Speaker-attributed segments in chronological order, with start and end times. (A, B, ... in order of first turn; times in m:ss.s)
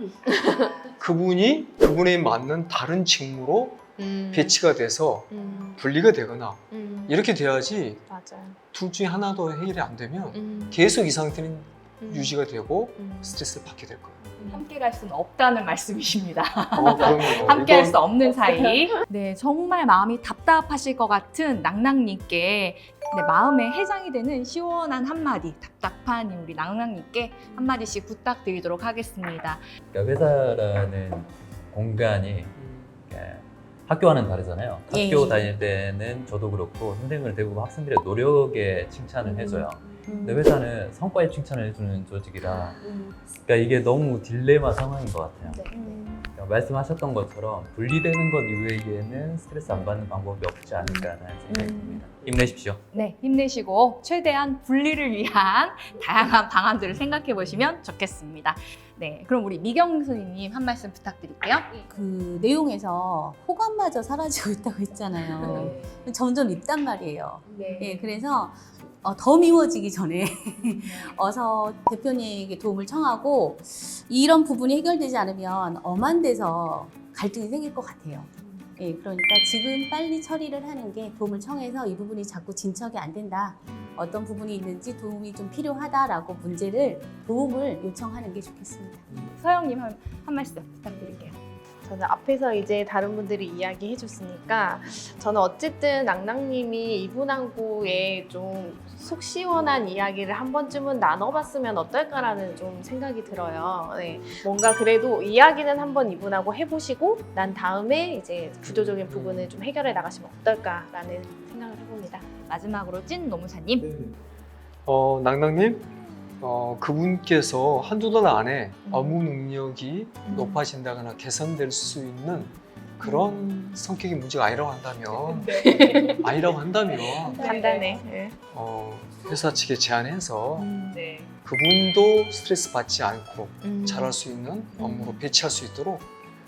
0:00.3-0:00.8 A
0:00.9-0:08.1 B
0:04.0-0:04.6 A
0:05.3-0:05.8 A
0:06.7-0:07.2 A
0:08.1-0:08.6 A
0:08.6-0:14.2 B
0:10.3-0:10.8 A
0:12.0-0:12.4 A
0:12.9-0:13.4 A
0:14.4-0:29.6 C
0:16.7-0:18.0 B
0:29.9-0:42.8 D
0:32.6-0:33.0 B
0:34.9-0:35.5 E
0:39.2-0:40.5 E
0:43.4-0:45.7 D
0:45.7-0:46.1 C
0:45.8-0:46.2 A
0:46.4-0:52.8 D
0:50.8-0:52.1 A
0:52.9-1:01.8 C
1:01.9-1:29.1 E
1:05.3-1:06.1 C
1:07.5-1:08.1 C
1:10.8-1:11.2 C
1:29.2-1:31.4 C
1:31.8-1:52.3 A
1:48.6-1:49.6 B
1:52.5-1:53.9 C
1:53.8-1:54.2 B
1:54.9-2:07.5 B
1:58.9-1:59.2 A
2:00.2-2:00.6 A
2:03.0-2:03.7 A
2:05.4-2:06.0 C
2:05.4-2:06.3 A
2:07.3-2:08.4 A
2:07.4-2:07.9 C
2:08.5-2:10.7 B
2:10.6-2:11.0 A
2:10.9-2:11.3 C
2:11.4-2:16.1 B
2:13.6-2:14.2 A
2:14.8-2:15.2 A